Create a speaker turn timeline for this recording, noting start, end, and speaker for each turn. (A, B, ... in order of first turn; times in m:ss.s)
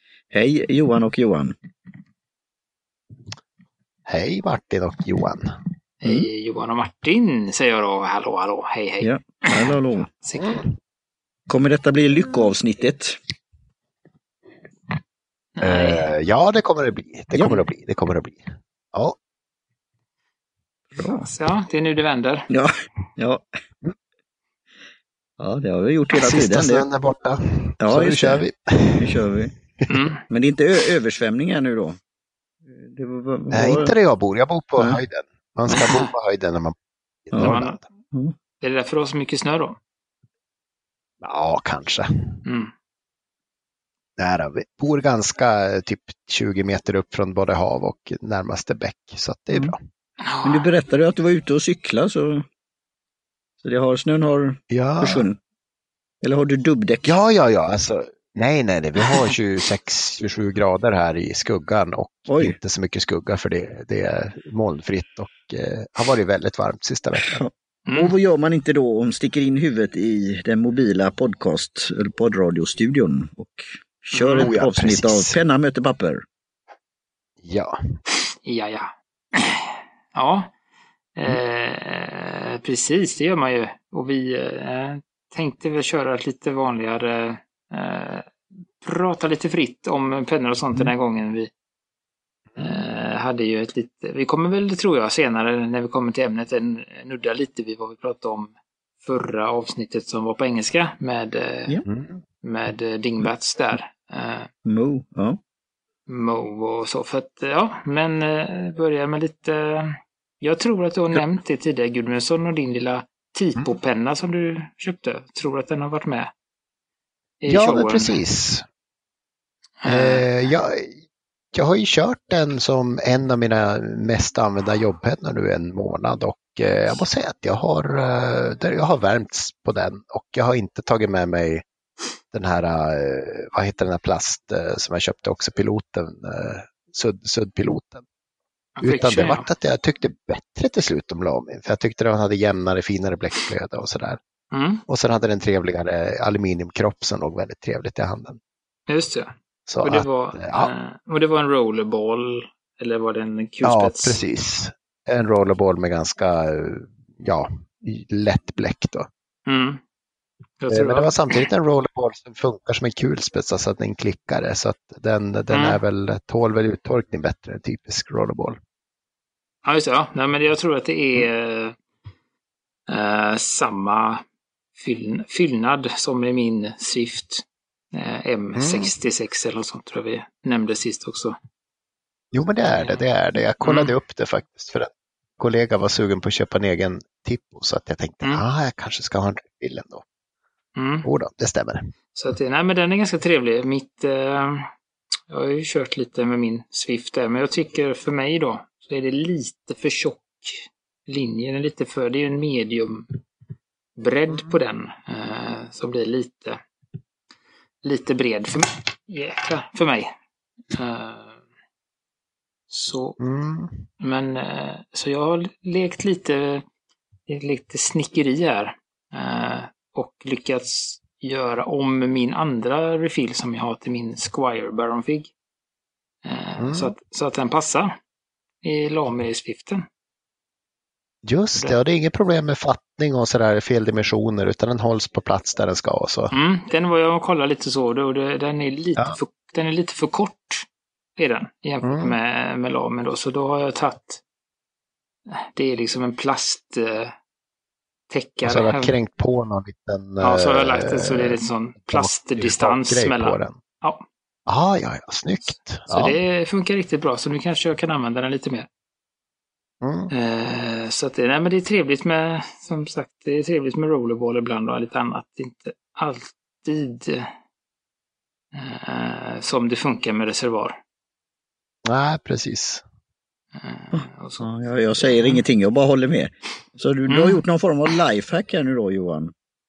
0:00.3-0:01.5 A
0:04.1-0:05.5 B
0:06.0-0:10.6 C
0:09.0-0:10.1 A
0:11.5-0:13.2 A
0:15.6-0:16.0 C
0:15.6-0:19.2 B
0:17.3-0:17.6 A
0:20.9-0:21.3 A
0:21.0-0:22.5 C
0:22.5-0:23.4 A
0:25.4-0:26.8 A
0:26.2-0:29.3 B
0:27.8-0:28.4 A
0:29.0-0:29.5 A
0:29.9-0:30.2 C
0:30.3-0:32.0 A
0:32.6-0:33.9 A
0:33.5-0:36.8 B
0:35.7-0:36.1 C
0:37.3-0:37.8 B
0:37.3-0:37.6 A
0:37.4-0:37.8 C
0:38.6-0:39.8 C
0:41.2-0:42.4 B
0:42.4-0:42.7 C
0:44.2-0:49.8 B
0:50.2-0:50.7 C
0:50.4-0:52.4 A
0:53.6-0:55.4 A
0:54.7-0:55.3 B
0:56.2-0:57.1 A
0:57.0-1:07.4 B
1:02.3-1:02.6 A
1:07.2-1:16.2 A
1:07.9-1:08.1 C
1:14.1-1:14.5 C
1:14.4-1:15.4 B
1:17.4-1:17.8 B
1:18.4-1:20.5 C
1:21.2-1:31.5 C
1:32.6-1:41.8 C
1:41.9-1:42.2 B
1:42.4-1:44.5 C
1:44.6-1:45.4 A
1:46.1-1:56.3 C
1:57.4-1:58.2 C
1:57.5-1:58.6 B
1:59.8-2:00.3 C
1:59.9-2:00.9 B
2:01.5-2:11.6 B
2:12.3-2:18.0 B
2:18.8-2:19.4 C
2:18.8-2:24.2 B
2:24.5-2:24.8 C
2:24.9-2:28.4 B
2:28.9-2:34.2 C
2:29.7-2:30.7 B
2:33.6-2:39.1 B
2:39.5-2:39.8 C
2:40.6-2:41.4 C
2:40.7-2:48.6 B
2:45.5-2:45.8 C
2:49.6-2:51.8 C
2:52.9-2:54.2 C
2:54.8-3:01.4 C
2:58.6-2:58.9 B
3:02.3-3:10.0 B
3:02.7-3:03.0 C
3:03.6-3:03.9 C
3:10.8-3:11.1 C
3:11.0-3:11.9 B
3:12.1-3:14.7 C
3:15.3-3:23.2 C
3:24.0-3:26.6 C
3:27.8-3:30.1 C
3:30.7-3:31.4 C
3:32.7-3:33.2 C
3:33.2-3:33.9 B
3:34.0-3:36.6 C
3:37.3-3:45.3 C
3:46.2-3:47.9 C
3:46.6-3:46.9 B
3:48.6-3:49.8 C
3:51.2-3:56.3 B
3:56.3-4:00.6 C
4:01.2-4:04.2 C
4:01.8-4:02.2 B
4:05.3-4:07.1 C
4:08.1-4:08.9 C
4:08.4-4:11.4 B
4:10.2-4:14.0 C
4:11.9-4:13.6 B
4:14.5-4:16.2 B
4:15.9-4:18.7 C
4:19.8-4:20.1 B
4:20.1-4:27.3 C
4:28.5-4:30.8 C
4:31.8-4:32.8 B
4:33.5-4:35.4 C
4:33.9-4:39.3 A
4:37.1-4:37.4 C